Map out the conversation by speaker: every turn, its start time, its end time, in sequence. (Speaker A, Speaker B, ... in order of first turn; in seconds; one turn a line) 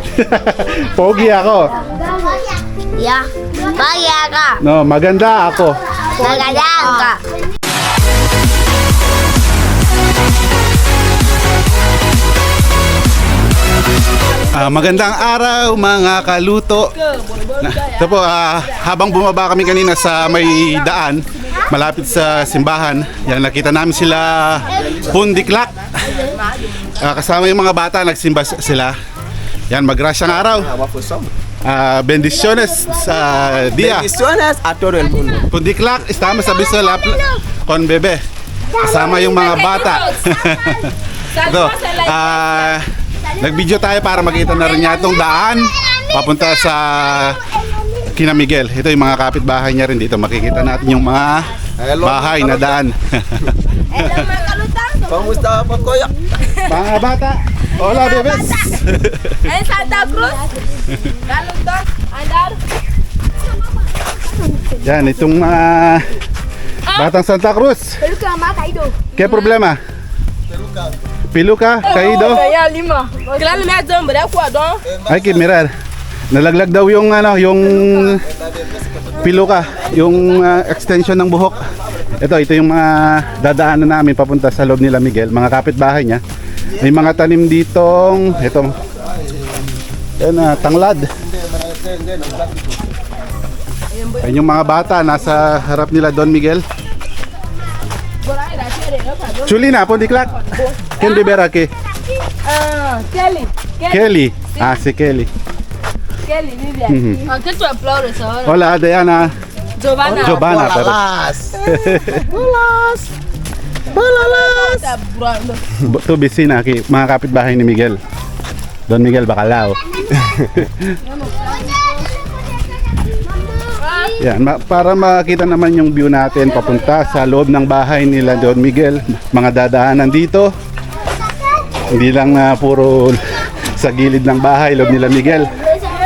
Speaker A: 0.1-1.8
Speaker B: 2.1-4.6
Speaker A: 4.6-5.8
Speaker B: 6.2-7.2
Speaker C: 6.2-7.2
Speaker A: 14.4-16.9
Speaker C: 17.2-18.1
Speaker A: 17.6-26.2
Speaker A: 26.9-28.9
Speaker A: 29.7-30.8
Speaker D: 30.4-31.3
Speaker A: 31.6-34.1
Speaker D: 33.8-35.4
Speaker A: 35.5-38.2
Speaker B: 36.3-37.4
Speaker B: 38.7-39.4
Speaker A: 38.8-42.9
Speaker C: 39.0-40.4
Speaker C: 41.3-42.7
Speaker A: 43.4-47.4
Speaker B: 44.5-48.2
Speaker A: 48.1-54.3
Speaker D: 51.8-52.8
Speaker C: 53.9-55.4
Speaker D: 55.1-56.1
Speaker A: 56.6-59.4
Speaker C: 57.8-58.9
Speaker C: 59.4-62.6
Speaker A: 64.8-66.2
Speaker A: 66.9-68.0
Speaker C: 68.0-69.1
Speaker A: 69.1-69.8
Speaker D: 70.5-71.0
Speaker A: 71.3-72.5
Speaker C: 71.8-74.8
Speaker D: 74.9-75.5
Speaker A: 75.1-75.7
Speaker A: 76.3-78.3
Speaker D: 78.3-79.8
Speaker A: 79.2-86.2
Speaker A: 86.7-88.8
Speaker D: 88.9-89.6
Speaker A: 90.2-91.1
Speaker D: 91.1-92.8
Speaker C: 93.9-95.2
Speaker A: 94.2-96.7
Speaker C: 98.2-99.7
Speaker A: 99.4-101.7
Speaker C: 100.4-101.0
Speaker C: 102.4-104.0
Speaker A: 103.8-105.3
Speaker C: 106.2-108.6
Speaker A: 106.9-107.3
Speaker A: 108.4-109.3
Speaker C: 109.8-110.5
Speaker D: 110.0-113.1
Speaker A: 110.1-111.0
Speaker A: 111.7-112.3
Speaker D: 113.9-114.9
Speaker C: 114.0-115.6
Speaker A: 115.8-118.0
Speaker A: 118.9-119.8
Speaker A: 120.4-121.0
Speaker B: 123.3-123.7
Speaker C: 123.8-124.1
Speaker A: 124.2-130.5
Speaker A: 131.9-135.5